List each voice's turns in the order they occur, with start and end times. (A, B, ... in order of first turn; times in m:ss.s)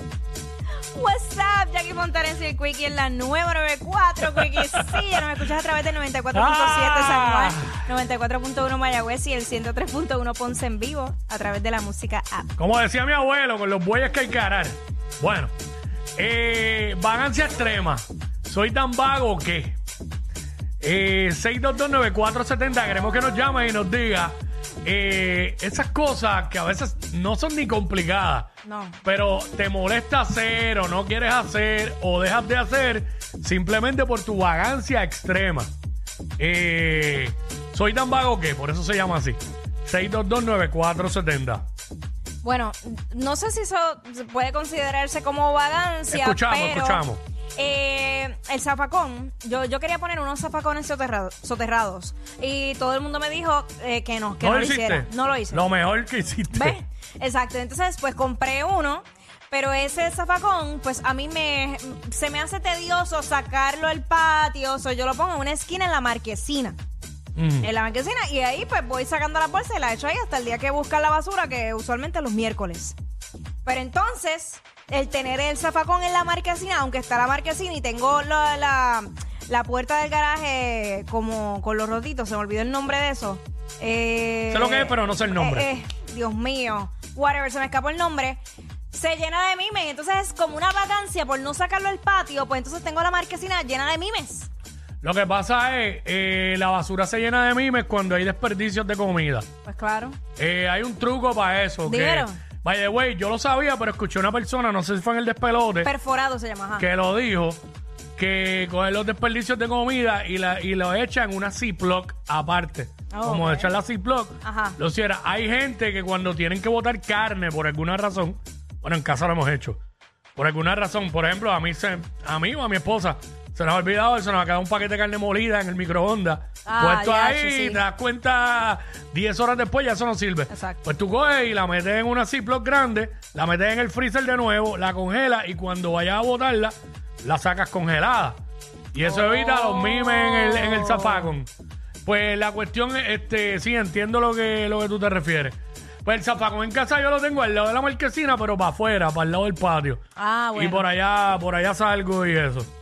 0:00.9-0:12.5 A
0:04.4-0:05.2 B
0:06.3-0:07.8 B
0:12.6-0:15.5 B
0:16.2-0:19.8 B
0:20.8-0:28.5 B
0:28.6-0:29.0 A
0:29.0-0:35.7 B
0:36.4-0:41.6 B
0:42.4-0:55.6 A
0:46.1-0:47.2 B
0:54.4-0:56.8 B
0:56.5-1:06.8 A
1:07.4-1:07.7 B
1:07.6-1:13.0 A
1:13.6-1:28.4 A
1:24.5-1:25.7 B
1:28.9-1:34.5 A
1:35.0-1:39.5 B
1:39.6-1:40.2 A
1:40.4-1:45.9 B
1:41.9-1:42.4 A
1:45.8-1:46.8 A
1:46.8-1:47.6 B
1:48.2-1:59.8 B
1:53.1-1:53.7 A
1:54.4-1:54.8 A
2:00.4-2:18.4 B
2:06.6-2:07.8 A
2:10.5-2:10.8 A
2:18.9-2:21.5 B
2:19.0-2:21.3 A
2:22.0-2:30.0 B
2:30.2-2:30.9 A
2:30.6-2:32.7 B